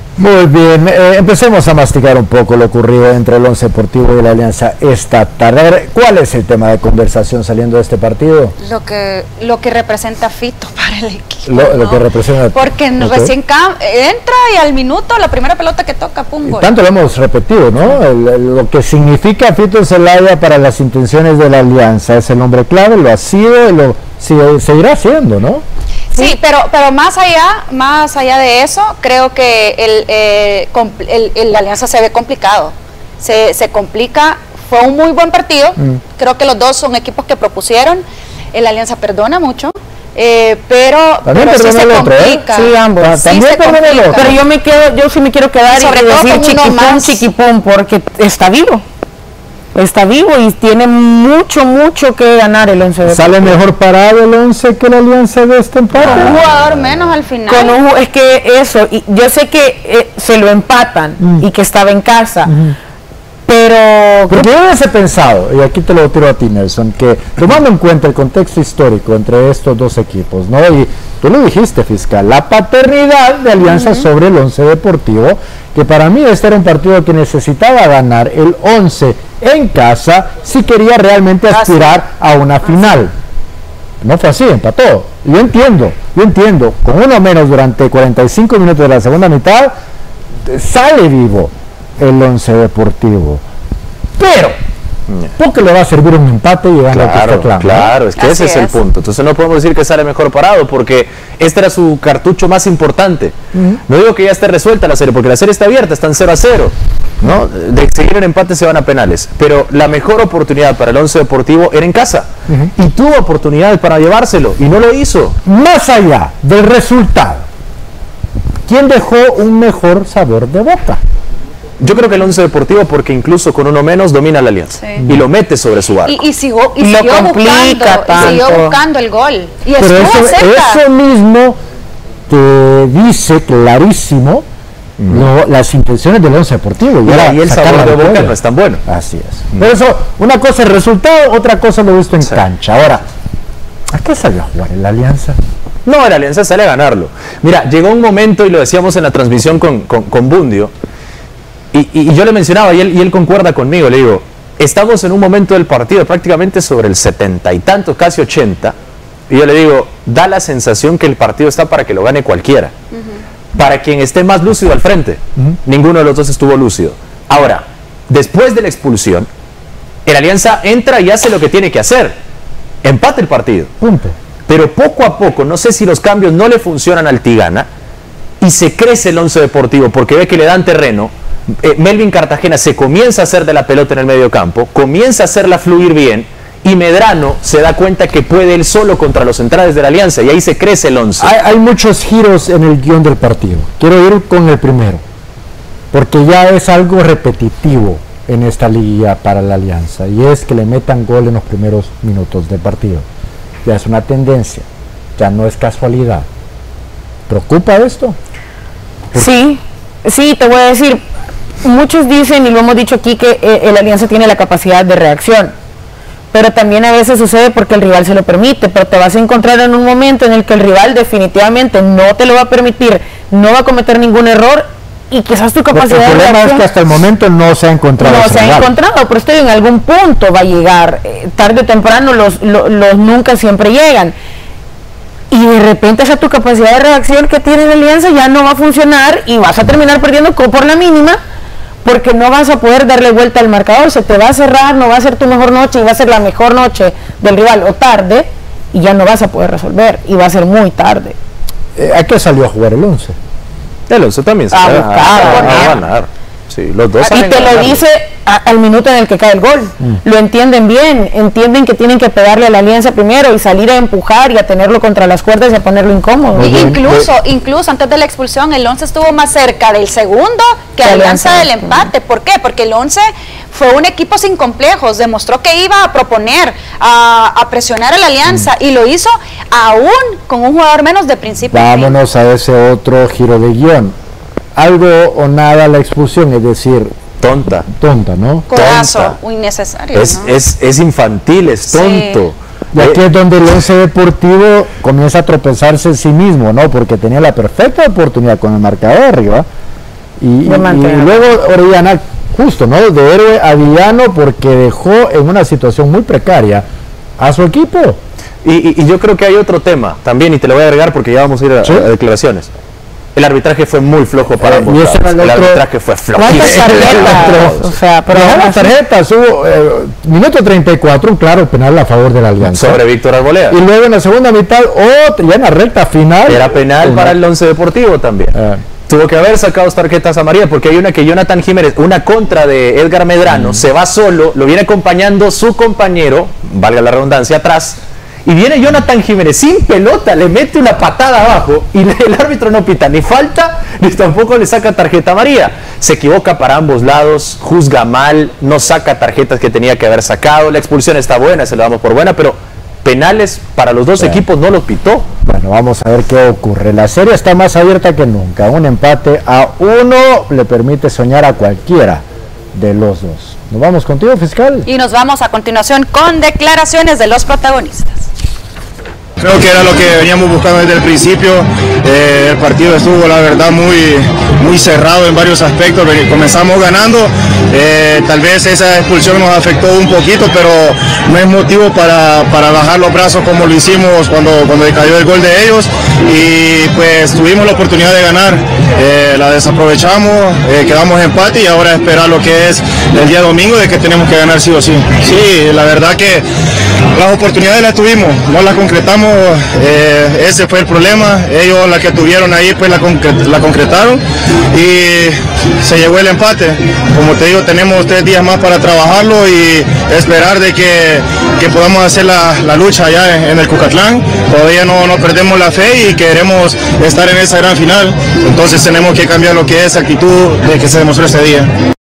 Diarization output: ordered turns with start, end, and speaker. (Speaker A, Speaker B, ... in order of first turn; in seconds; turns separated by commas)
Speaker A: 0.2-8.6, Speaker B: 8.6-16.7, Speaker A: 11.5-13.3, Speaker A: 16.5-25.6, Speaker B: 26.1-44.4, Speaker A: 41.2-42.4, Speaker C: 42.5-48.8, Speaker A: 43.0-44.4, Speaker B: 45.7-47.2, Speaker C: 49.7-53.6, Speaker A: 53.1-57.0, Speaker B: 56.0-57.8, Speaker C: 57.5-62.6, Speaker A: 62.5-62.7, Speaker C: 63.5-64.5, Speaker A: 64.3-83.1, Speaker B: 73.7-74.0, Speaker B: 81.5-82.0, Speaker A: 84.0-89.7, Speaker A: 90.5-93.4, Speaker A: 94.2-94.6, Speaker A: 95.4-97.9, Speaker D: 96.9-103.3, Speaker B: 98.2-98.8, Speaker D: 103.9-115.4, Speaker A: 115.5-117.5, Speaker A: 118.7-121.0, Speaker D: 121.8-126.2, Speaker B: 126.1-130.8, Speaker C: 126.8-128.8, Speaker D: 128.2-128.7, Speaker A: 129.8-131.6, Speaker A: 132.3-134.4, Speaker D: 135.0-135.2, Speaker A: 135.1-143.0, Speaker D: 137.0-138.8, Speaker A: 143.9-145.4, Speaker D: 145.8-150.7, Speaker D: 151.7-158.8, Speaker D: 159.3-162.7, Speaker D: 163.6-169.3, Speaker D: 170.1-172.2, Speaker D: 172.8-173.7, Speaker A: 173.8-174.2, Speaker D: 174.5-177.7, Speaker D: 178.4-191.3, Speaker A: 191.2-195.0, Speaker A: 195.9-203.1, Speaker A: 203.6-206.3, Speaker A: 207.3-208.2, Speaker C: 209.1-211.0, Speaker C: 211.6-215.5, Speaker C: 216.3-226.7, Speaker A: 225.7-228.7, Speaker C: 228.0-234.1, Speaker C: 235.3-241.2, Speaker C: 241.8-251.2, Speaker A: 251.8-253.2, Speaker D: 253.9-257.8, Speaker C: 254.5-255.8, Speaker B: 255.2-255.7, Speaker B: 257.0-257.3, Speaker C: 257.1-266.6, Speaker A: 266.3-267.1, Speaker B: 266.4-281.9, Speaker C: 270.8-271.9, Speaker A: 281.5-283.9, Speaker A: 284.6-286.9, Speaker D: 287.2-287.7, Speaker A: 287.7-288.5, Speaker B: 288.5-290.3, Speaker D: 288.5-289.2, Speaker D: 289.9-293.0, Speaker B: 291.7-292.2, Speaker A: 292.7-299.5, Speaker A: 300.2-306.7, Speaker C: 300.4-301.2, Speaker A: 307.2-308.0, Speaker D: 308.4-312.5, Speaker A: 311.6-311.9, Speaker D: 313.1-317.7, Speaker A: 314.4-315.6, Speaker C: 316.1-318.7, Speaker A: 316.3-322.8, Speaker D: 322.5-323.6, Speaker A: 323.5-327.2, Speaker D: 326.3-355.1, Speaker A: 328.4-328.6, Speaker A: 355.2-362.0, Speaker A: 362.5-364.7, Speaker B: 364.7-368.0, Speaker E: 369.2-396.2, Speaker E: 397.0-404.0, Speaker E: 404.5-421.5